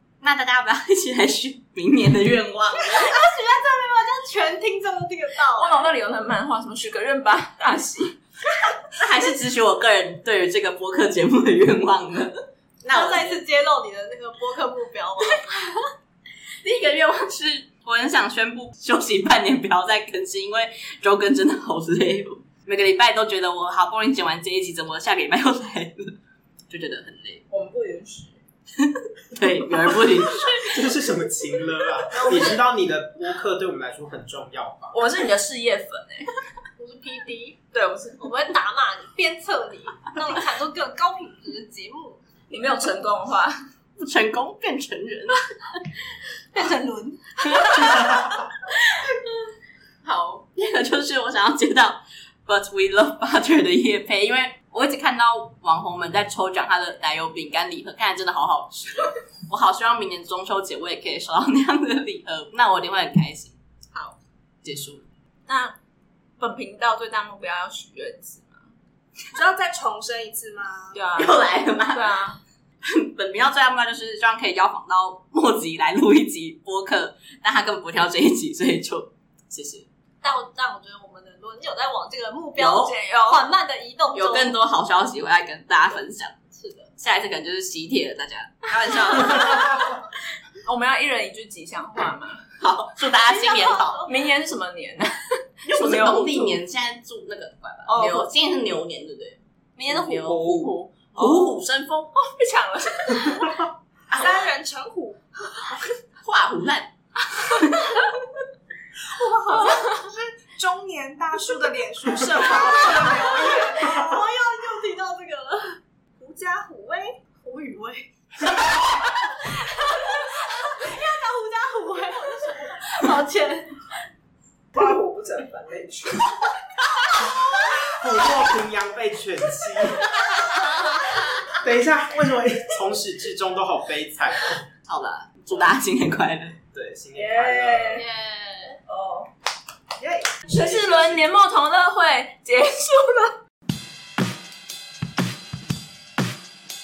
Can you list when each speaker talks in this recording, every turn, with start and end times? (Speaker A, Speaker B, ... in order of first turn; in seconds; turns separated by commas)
Speaker A: 0.2-3.1, Speaker B: 2.9-5.9, Speaker C: 5.6-8.2, Speaker A: 8.9-13.4, Speaker B: 12.9-15.9, Speaker A: 16.6-26.1, Speaker A: 26.7-27.4, Speaker C: 27.5-28.4, Speaker A: 28.8-30.8, Speaker D: 30.6-35.1, Speaker B: 32.1-32.6, Speaker C: 34.9-36.3, Speaker B: 36.8-37.6, Speaker C: 37.7-38.4, Speaker B: 38.2-42.2, Speaker C: 42.5-43.5, Speaker A: 44.0-45.4, Speaker B: 46.5-47.9, Speaker A: 47.4-48.4, Speaker A: 50.0-63.6, Speaker A: 64.6-65.0, Speaker C: 65.5-65.7, Speaker C: 66.4-68.7, Speaker E: 69.3-71.0, Speaker C: 70.9-71.4, Speaker A: 71.2-72.2, Speaker C: 71.9-72.4, Speaker A: 72.8-79.9, Speaker B: 80.2-84.5, Speaker A: 82.6-82.9, Speaker C: 82.8-83.4, Speaker A: 84.1-86.3, Speaker B: 86.5-86.9, Speaker A: 87.0-89.9, Speaker B: 89.3-89.7, Speaker C: 90.6-92.4, Speaker A: 92.6-94.1, Speaker B: 93.7-94.0, Speaker C: 94.0-96.6, Speaker A: 95.6-102.1, Speaker C: 97.8-98.3, Speaker C: 99.8-101.5, Speaker C: 102.1-103.7, Speaker E: 104.1-105.8, Speaker A: 106.2-107.9, Speaker E: 109.1-114.2, Speaker B: 112.5-115.8, Speaker E: 116.2-117.2, Speaker B: 117.4-123.9, Speaker C: 124.7-126.3, Speaker D: 127.9-130.2, Speaker D: 131.5-134.6, Speaker A: 134.9-136.6, Speaker D: 136.7-138.0, Speaker C: 137.1-138.1, Speaker B: 137.9-138.8, Speaker C: 138.9-139.3, Speaker D: 140.0-140.3, Speaker E: 140.4-140.9, Speaker C: 140.5-143.4